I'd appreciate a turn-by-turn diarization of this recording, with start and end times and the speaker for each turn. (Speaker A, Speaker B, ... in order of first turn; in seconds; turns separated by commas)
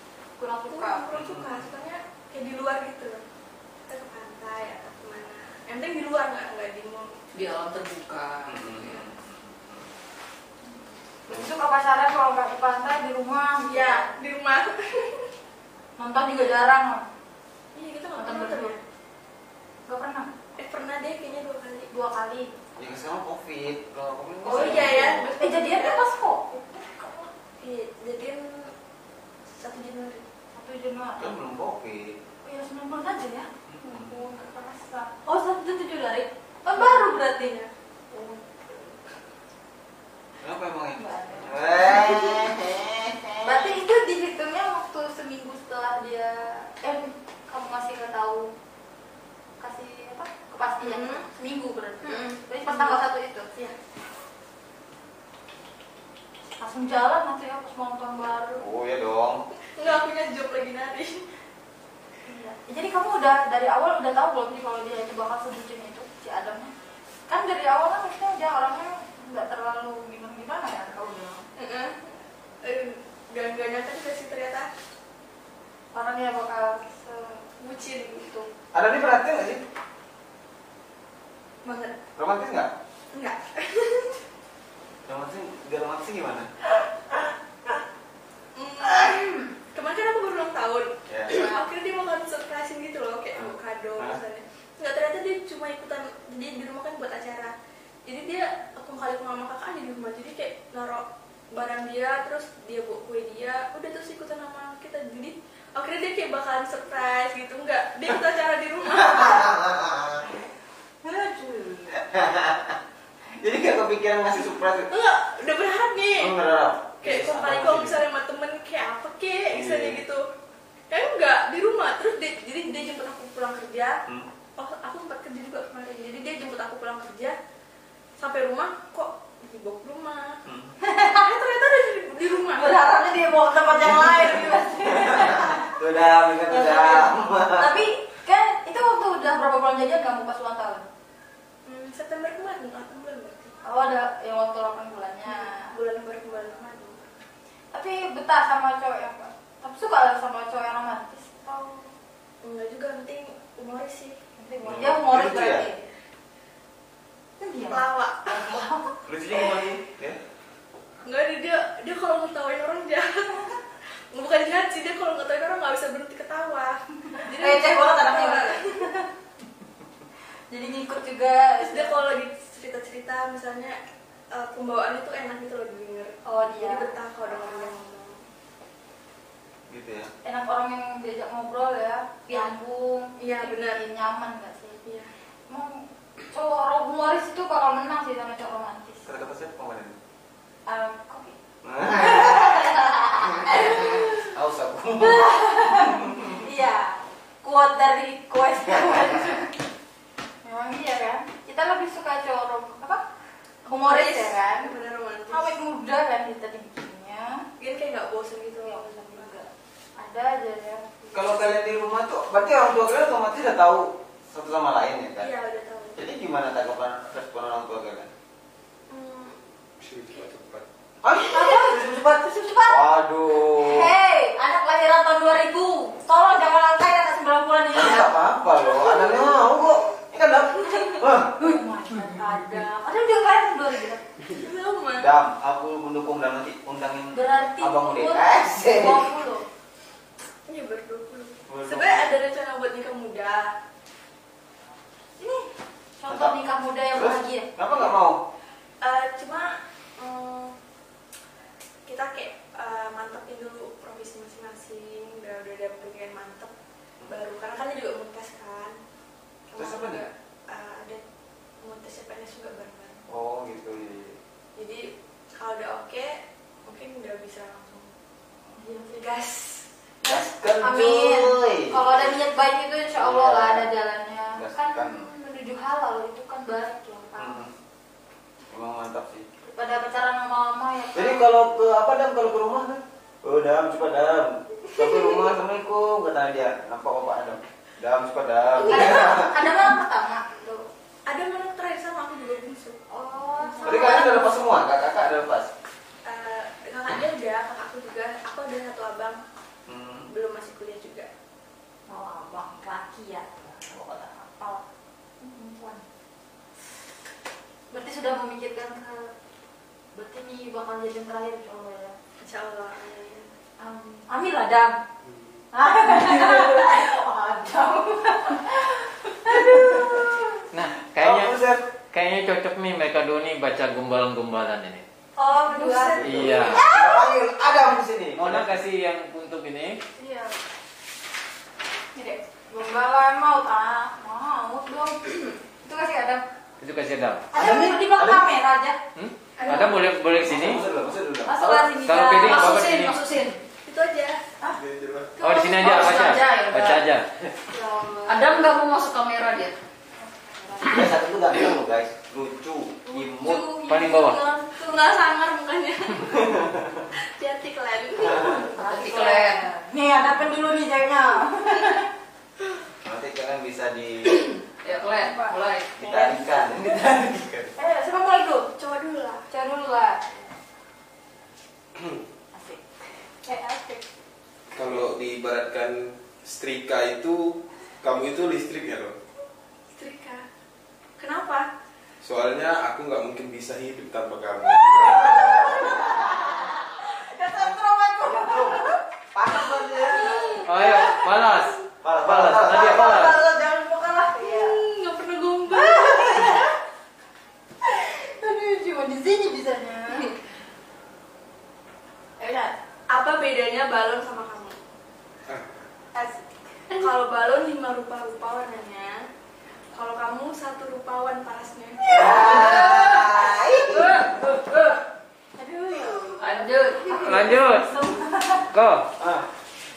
Speaker A: 0.4-1.0, Speaker B: 0.7-3.2, Speaker C: 1.1-1.6, Speaker B: 3.9-7.1, Speaker D: 7.3-8.7, Speaker C: 8.4-9.9, Speaker A: 11.3-14.1, Speaker B: 13.7-15.3, Speaker A: 16.0-17.0, Speaker B: 17.7-18.8, Speaker A: 18.1-18.8, Speaker A: 19.9-20.3, Speaker B: 20.6-21.9, Speaker A: 21.9-22.5, Speaker C: 22.8-25.3, Speaker B: 24.4-26.0, Speaker A: 24.4-27.3, Speaker B: 27.6-28.7, Speaker B: 29.6-30.2, Speaker A: 30.5-31.3, Speaker C: 31.2-32.2, Speaker A: 32.4-38.4, Speaker C: 33.7-34.1, Speaker B: 36.7-37.7, Speaker C: 40.4-43.8, Speaker A: 41.0-42.1, Speaker A: 43.4-48.5, Speaker A: 49.6-53.5, Speaker B: 50.8-51.2, Speaker B: 52.0-53.0, Speaker A: 56.6-58.6, Speaker C: 58.6-59.4, Speaker B: 59.8-61.2, Speaker A: 62.3-66.7, Speaker A: 67.3-71.4, Speaker B: 71.5-74.7, Speaker A: 75.9-77.5, Speaker B: 77.6-78.4, Speaker C: 78.7-79.6, Speaker B: 81.6-82.0, Speaker C: 82.2-82.7, Speaker B: 83.1-84.2, Speaker C: 85.1-86.5, Speaker B: 88.5-97.5, Speaker C: 91.1-91.4, Speaker C: 93.3-94.2, Speaker B: 98.0-109.5, Speaker C: 108.9-110.2, Speaker A: 111.0-112.0, Speaker C: 111.9-112.8, Speaker C: 113.4-114.9, Speaker B: 114.9-116.3, Speaker C: 116.2-118.0, Speaker B: 117.0-120.2, Speaker C: 119.5-120.0, Speaker B: 120.9-124.0, Speaker B: 124.6-127.3, Speaker B: 128.2-130.4, Speaker C: 130.4-130.7, Speaker A: 130.8-131.2, Speaker B: 131.0-132.8, Speaker A: 132.5-135.7, Speaker C: 133.8-137.8, Speaker A: 136.5-140.9, Speaker B: 141.7-143.5, Speaker A: 143.6-145.7, Speaker B: 145.3-147.1, Speaker A: 147.7-151.9, Speaker B: 152.4-154.2, Speaker A: 154.4-155.8, Speaker C: 154.6-155.7, Speaker A: 157.4-158.9, Speaker B: 157.7-158.4, Speaker C: 159.0-160.2, Speaker B: 161.0-163.6, Speaker B: 164.1-168.8, Speaker A: 167.2-169.1, Speaker A: 170.5-172.0, Speaker B: 171.6-173.8, Speaker B: 174.3-178.2, Speaker A: 176.2-177.6, Speaker C: 179.7-180.1, Speaker A: 180.2-184.8, Speaker B: 183.2-183.8, Speaker B: 184.8-185.1, Speaker A: 185.5-189.1, Speaker C: 189.0-190.0, Speaker A: 190.7-191.4, Speaker C: 191.6-196.4, Speaker A: 191.9-194.0, Speaker A: 195.0-199.6, Speaker C: 198.8-199.1, Speaker A: 200.4-203.0, Speaker A: 203.7-204.7, Speaker B: 203.7-205.5, Speaker A: 205.3-207.4, Speaker B: 207.6-209.3, Speaker A: 208.6-210.9, Speaker C: 211.1-215.3, Speaker B: 215.2-216.0, Speaker C: 215.9-218.1, Speaker B: 218.9-219.4, Speaker E: 219.8-220.6, Speaker C: 221.0-223.9, Speaker A: 221.3-222.8, Speaker A: 223.5-228.1, Speaker C: 227.7-231.4, Speaker A: 231.3-234.0, Speaker B: 234.3-235.1, Speaker C: 235.0-239.1, Speaker A: 237.1-239.4, Speaker B: 240.5-243.5, Speaker C: 241.5-242.1, Speaker A: 245.2-245.5, Speaker A: 246.0-247.5, Speaker C: 246.1-246.4, Speaker C: 246.9-248.2, Speaker B: 248.8-250.5, Speaker B: 251.8-256.5, Speaker B: 257.1-258.8, Speaker B: 259.5-261.0, Speaker C: 259.6-260.0, Speaker B: 261.6-263.0, Speaker C: 263.1-264.2, Speaker B: 264.6-267.9, Speaker A: 268.6-268.9, Speaker B: 268.6-270.1, Speaker C: 270.0-272.1, Speaker A: 270.1-277.4, Speaker C: 273.0-273.7, Speaker C: 274.3-275.1, Speaker C: 277.2-277.5, Speaker C: 278.5-279.3, Speaker A: 279.4-281.3, Speaker C: 280.9-289.5, Speaker A: 288.6-290.7, Speaker B: 288.7-289.0, Speaker B: 291.1-292.8, Speaker A: 292.9-294.3, Speaker B: 293.4-294.0, Speaker C: 293.6-295.5, Speaker B: 296.1-299.2, Speaker C: 299.7-300.1, Speaker B: 300.1-301.1, Speaker A: 301.9-303.6, Speaker C: 303.6-304.2, Speaker A: 304.2-304.6, Speaker A: 305.2-305.8, Speaker A: 307.7-309.1, Speaker A: 309.9-311.9, Speaker B: 312.2-313.3, Speaker A: 313.6-314.8, Speaker A: 315.5-320.3, Speaker C: 319.3-320.0, Speaker F: 320.5-321.3, Speaker C: 320.9-321.6, Speaker F: 321.9-324.8, Speaker A: 325.2-327.1, Speaker B: 325.3-326.3, Speaker C: 326.0-328.5, Speaker F: 326.0-326.6, Speaker F: 328.2-329.8, Speaker A: 330.0-330.3, Speaker A: 332.5-336.2, Speaker F: 336.6-337.3, Speaker A: 337.3-338.8, Speaker C: 337.3-338.3, Speaker F: 338.9-340.6, Speaker B: 339.4-339.9, Speaker A: 339.4-339.7, Speaker C: 340.2-341.7, Speaker A: 341.2-342.7, Speaker F: 341.8-343.0, Speaker D: 342.0-343.4, Speaker B: 343.6-344.2, Speaker E: 344.5-345.3, Speaker F: 345.2-347.0, Speaker B: 345.3-345.9, Speaker A: 345.3-346.7, Speaker D: 345.6-346.8, Speaker A: 347.5-348.6, Speaker D: 348.1-349.6, Speaker A: 350.0-350.9, Speaker C: 350.6-353.4, Speaker A: 353.2-354.8, Speaker F: 353.7-354.2, Speaker B: 354.5-358.5, Speaker C: 356.1-356.9, Speaker C: 358.0-358.5, Speaker A: 358.5-361.9, Speaker D: 358.6-359.5, Speaker C: 362.8-364.2, Speaker D: 364.6-366.2, Speaker A: 365.0-365.4, Speaker C: 365.8-367.5, Speaker A: 367.6-368.5, Speaker B: 368.6-369.2, Speaker A: 369.3-370.0, Speaker A: 372.3-372.6, Speaker A: 373.2-373.8, Speaker E: 374.5-379.0, Speaker B: 379.7-380.2, Speaker B: 381.0-381.5, Speaker E: 382.0-385.1, Speaker C: 384.7-386.3, Speaker A: 385.1-388.7, Speaker C: 387.3-390.3, Speaker A: 389.9-391.0, Speaker B: 390.0-390.9, Speaker F: 390.4-393.2, Speaker C: 391.8-393.2, Speaker A: 392.3-394.6, Speaker B: 394.2-396.5, Speaker A: 395.5-396.5, Speaker A: 397.6-400.1, Speaker A: 402.2-402.5, Speaker B: 402.9-404.6, Speaker E: 405.3-405.6, Speaker A: 405.9-406.9, Speaker B: 406.8-408.9, Speaker B: 409.7-412.2, Speaker A: 411.8-413.1, Speaker C: 411.9-414.1, Speaker D: 412.0-413.1, Speaker D: 413.7-414.8, Speaker A: 415.4-418.5, Speaker D: 416.2-417.1, Speaker F: 416.9-417.8, Speaker F: 418.5-418.9, Speaker C: 419.0-419.3